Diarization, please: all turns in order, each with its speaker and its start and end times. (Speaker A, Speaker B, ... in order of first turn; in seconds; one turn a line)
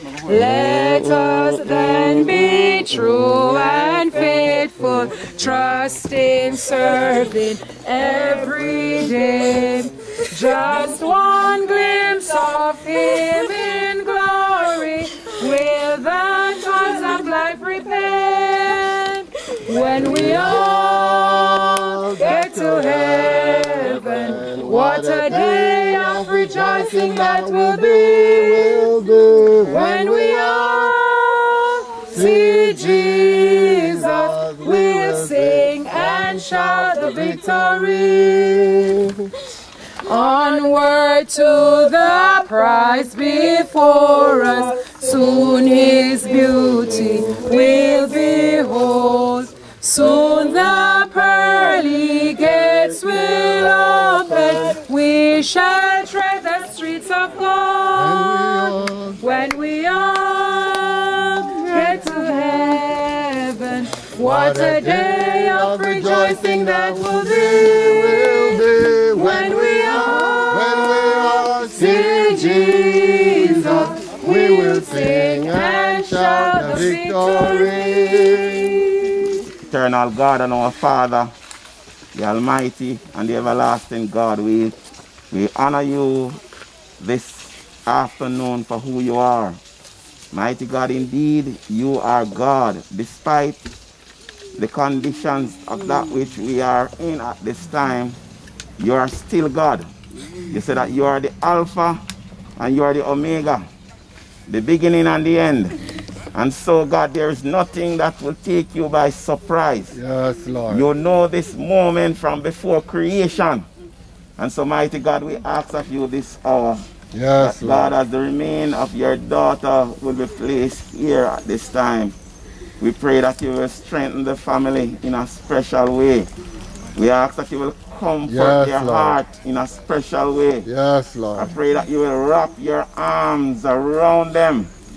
Speaker A: 0.2-38.2
Speaker B: 0.3-3.1
Speaker B: 19.7-30.9
Speaker B: 32.1-39.3
Speaker A: 40.0-79.2
Speaker B: 45.1-47.5
Speaker B: 53.4-54.5
Speaker B: 57.9-59.2
Speaker B: 64.2-78.8
Speaker C: 79.6-81.3
Speaker C: 82.1-84.8
Speaker C: 85.3-86.4
Speaker C: 87.0-89.6
Speaker C: 90.3-93.6
Speaker C: 94.6-98.2
Speaker C: 98.8-99.9
Speaker C: 100.5-102.0
Speaker C: 102.6-103.7
Speaker C: 104.5-105.8
Speaker C: 106.3-110.0
Speaker B: 109.9-110.9
Speaker C: 110.7-113.7
Speaker C: 114.4-116.8
Speaker B: 117.1-117.9
Speaker C: 117.4-122.1
Speaker C: 122.8-126.3
Speaker C: 126.9-130.7
Speaker B: 128.3-129.2
Speaker B: 130.6-131.5
Speaker C: 131.3-134.7